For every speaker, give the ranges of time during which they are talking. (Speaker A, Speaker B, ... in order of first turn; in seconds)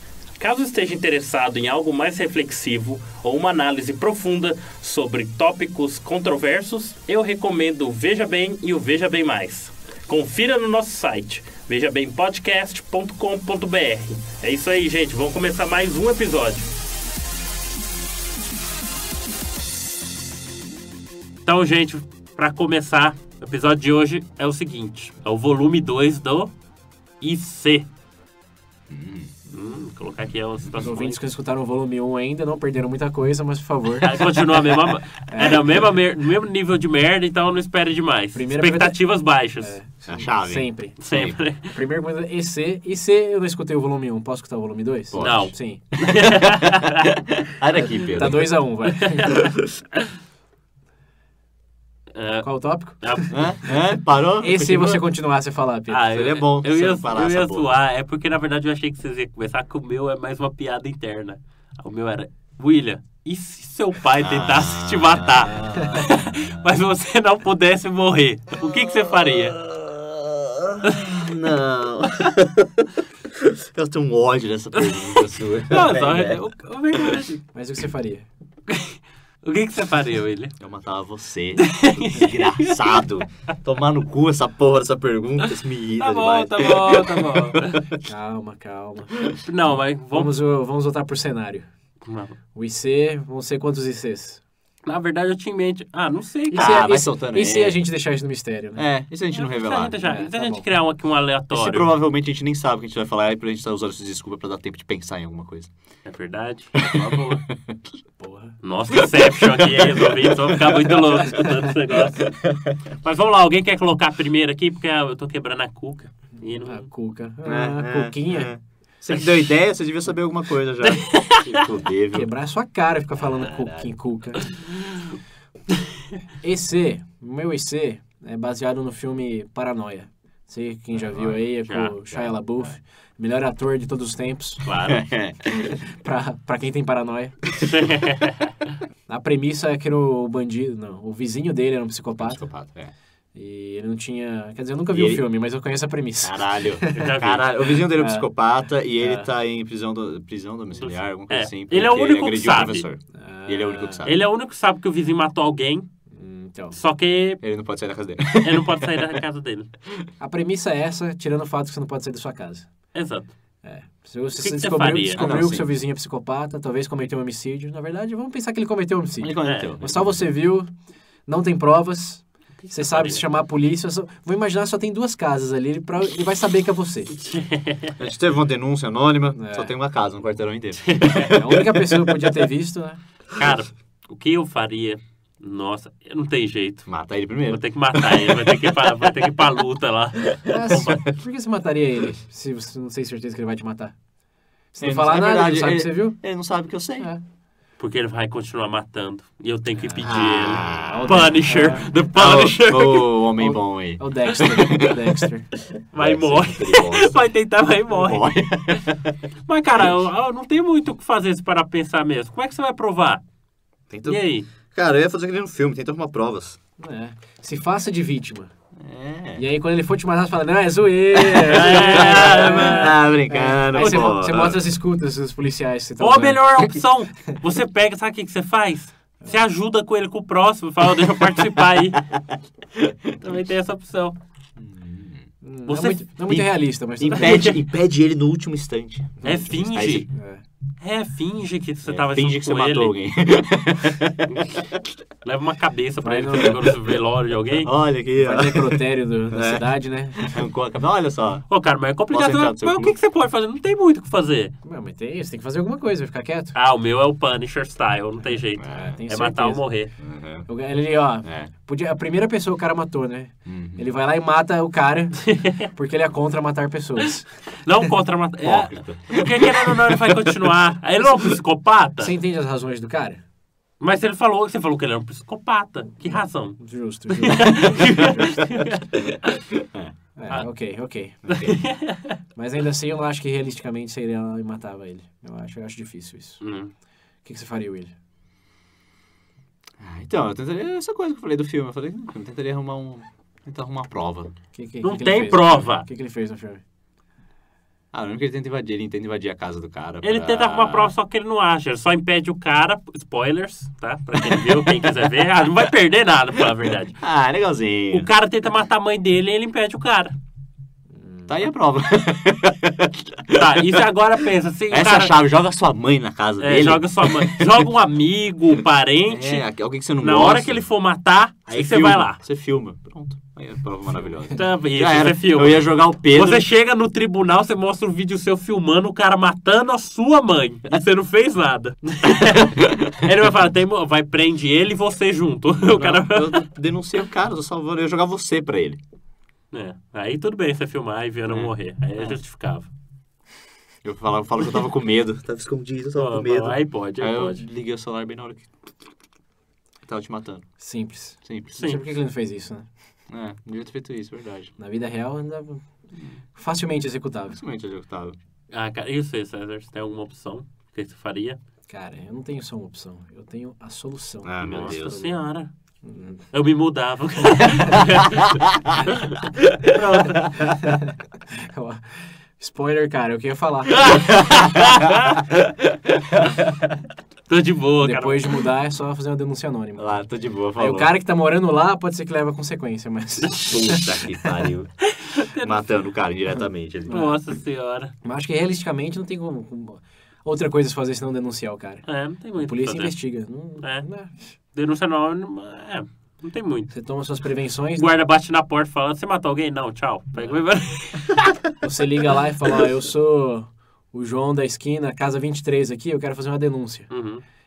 Speaker A: 0.4-16.7, 21.4-26.5, 27.2-27.9, 29.5-31.2, 34.0-39.8, 41.0-41.8, 45.2-47.0, 48.9-50.0, 52.1-52.5, 53.0-53.3, 55.9-69.6, 74.8-77.4, 78.7-80.5, 81.6-83.0, 86.0-87.9, 89.5-90.4, 92.1-92.4, 94.9-96.9, 99.3-101.9, 106.1-107.4, 108.6-112.2, 113.0-116.9, 120.8-121.5, 124.4-125.0, 131.6-132.0, 134.7-135.1, 137.6-138.6, 146.9-147.5, 150.8-152.9, 154.0-155.9, 156.7-157.4, 158.4-159.7, 162.9-163.3, 164.4-165.3, 169.4-169.7, 172.6-173.2, 177.1-177.9, 180.8-181.3, 183.4-186.9, 187.5-191.0, 197.8-203.2, 204.3-204.7, 205.9-208.8, 209.5-213.2, 214.1-214.5, 221.4-223.0, 223.7-224.1, 226.0-232.0, 233.2-234.2, 235.7-236.3, 237.1-237.6, 239.2-240.1, 240.8-242.9, 245.2-247.7, 251.5-254.5, 256.5-259.9, 265.2-265.7, 267.6-272.1, 273.8-279.4, 281.3-282.2, 286.4-286.7, 294.8-295.9, 300.0-307.0, 307.9-310.1, 313.4-315.2, 316.4-319.4, 320.0-322.2, 324.3-336.5, 339.5-342.7, 345.9-347.4, 351.5-351.9, 358.5-361.4, 364.4-365.5, 366.3-368.4, 369.1-370.4, 373.8-375.3, 377.3-378.4, 383.2-383.5, 385.0-385.6, 386.9-387.9, 391.9-392.9, 393.6-393.9, 394.5-396.7, 397.8-401.3, 406.9-407.2
Speaker B: 28.9-29.3, 40.1-41.4, 45.1-46.7, 47.4-48.6, 53.3-55.0, 56.1-57.8, 64.2-66.6, 69.2-72.8, 73.4-76.4, 80.6-87.9, 96.5-97.8, 98.8-100.0, 101.5-105.7, 106.8-107.8, 109.4-111.1, 112.2-112.6, 117.5-122.3, 123.2-124.0, 130.9-131.4, 134.9-135.6, 142.2-142.9, 144.9-145.3, 146.2-154.2, 157.4-159.1, 165.1-165.7, 169.2-170.2, 178.0-182.4, 186.9-188.4, 190.6-191.0, 194.8-197.1, 200.0-201.3, 202.1-205.1, 205.9-207.2, 207.9-209.1, 213.9-216.6, 218.8-219.4, 221.1-224.6, 232.8-233.4, 234.6-235.2, 236.2-239.2, 239.7-240.0, 241.9-244.3, 247.6-251.5, 252.1-253.0, 258.6-259.0, 260.0-260.5, 261.1-261.5, 263.5-263.9, 268.4-270.3, 281.2-281.6, 289.8-294.3, 297.9-300.9, 304.2-305.0, 307.0-308.1, 311.3-313.8, 314.7-317.7, 319.1-320.6, 321.5-326.5, 335.6-338.8, 341.3-342.2, 343.8-348.5, 349.9-350.5, 351.2-351.6, 353.1-354.5, 357.3-358.2, 364.2-365.0, 373.9-374.6, 379.8-380.9, 383.4-384.7, 385.4-387.1
Speaker C: 30.8-34.2, 35.3-35.7, 38.3-39.0, 39.6-41.0, 41.6-45.9, 47.7-49.4, 52.4-53.5, 54.4-56.1, 77.5-78.3, 88.0-91.7, 92.5-94.4, 96.5-98.9, 100.0-100.7, 108.2-108.5, 116.4-118.5, 122.1-124.4, 126.4-134.6, 135.7-137.4, 139.1-142.4, 143.3-147.2, 147.7-148.3, 149.0-149.3, 153.1-154.1, 156.1-156.8, 160.2-162.7, 163.6-170.7, 171.3-177.1, 179.4-179.7, 181.3-183.0, 190.5-193.9, 194.7-196.2, 199.8-201.9, 203.3-205.5, 216.8-218.5, 219.4-226.4, 235.4-237.5, 239.2-240.4, 246.0-246.6, 248.2-250.4, 254.6-256.5, 258.2-259.7, 260.4-267.3, 272.0-273.2, 276.0-278.7, 280.2-281.3, 282.4-286.4, 287.2-287.9, 294.5-296.6, 310.9-311.4, 350.6-352.7, 354.6-355.6, 356.4-357.4, 361.7-365.2, 365.8-366.2, 370.5-373.9, 377.8-384.4, 388.0-391.9, 392.4-394.2, 396.7-397.9, 401.6-406.9